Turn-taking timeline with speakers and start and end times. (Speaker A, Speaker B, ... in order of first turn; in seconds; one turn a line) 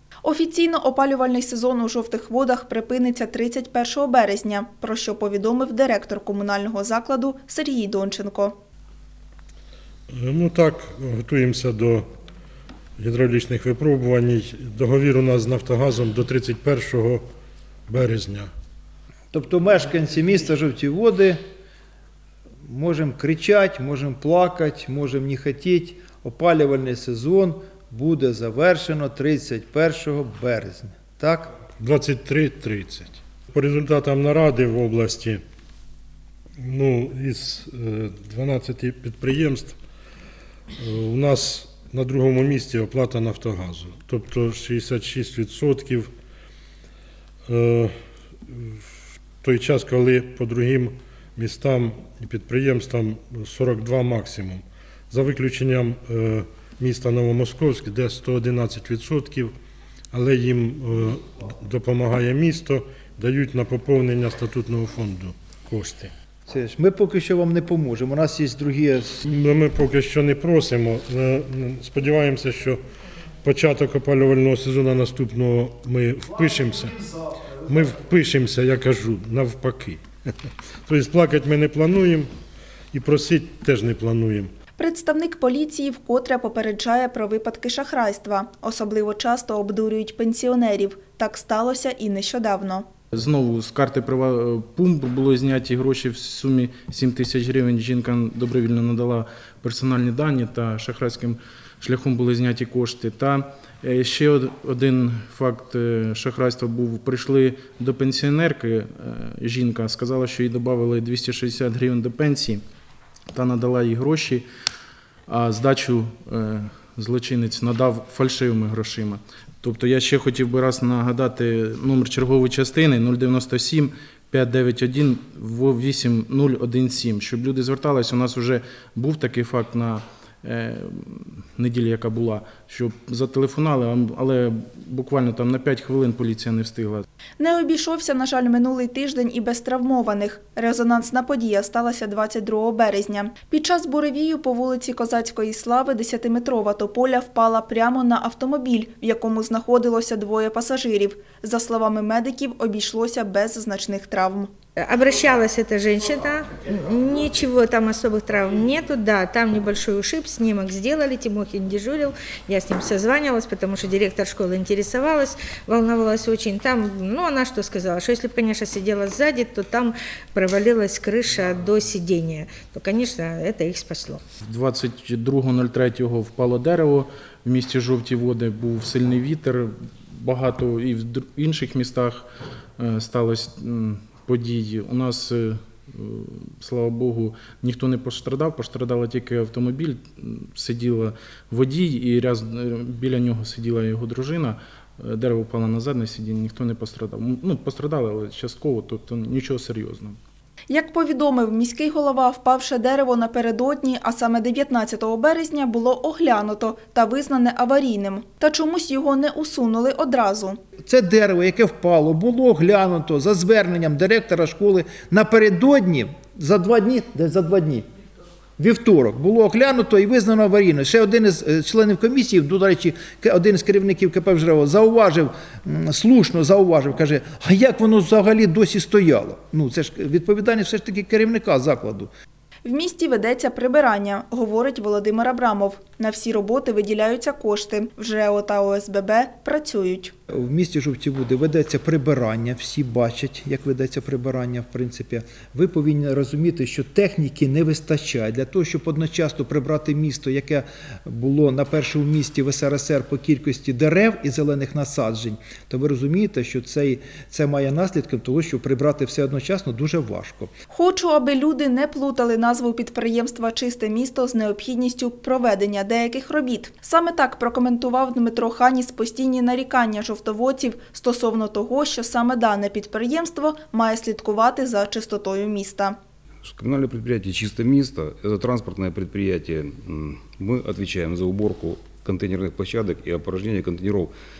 Speaker A: 0.2-8.5
Speaker B: 10.1-12.1
Speaker B: 13.0-17.2
Speaker B: 17.9-18.5
Speaker C: 19.3-21.4
Speaker C: 22.6-31.5
Speaker B: 31.8-35.4
Speaker B: 36.6-39.8
Speaker B: 40.8-46.1
Speaker B: 47.5-47.9
Speaker B: 49.4-59.5
Speaker B: 60.1-66.1
Speaker C: 66.5-69.2
Speaker B: 69.2-72.8
Speaker B: 73.4-77.1
Speaker B: 77.6-80.0
Speaker B: 80.8-82.3
Speaker B: 82.9-84.5
Speaker A: 84.8-92.8
Speaker D: 93.1-112.6
Speaker D: 113.3-114.4
Speaker D: 115.3-137.0
Speaker A: 137.4-154.5
Speaker E: 154.8-174.2
Speaker D: 174.4-182.2
Speaker D: 182.8-200.2
Speaker A: 200.7-210.6
Speaker C: 210.8-217.8
Speaker C: 218.6-232.1
Speaker A: 232.7-240.1
Speaker C: 240.3-260.5
Speaker A: 260.7-276.0
Speaker F: 276.4-284.1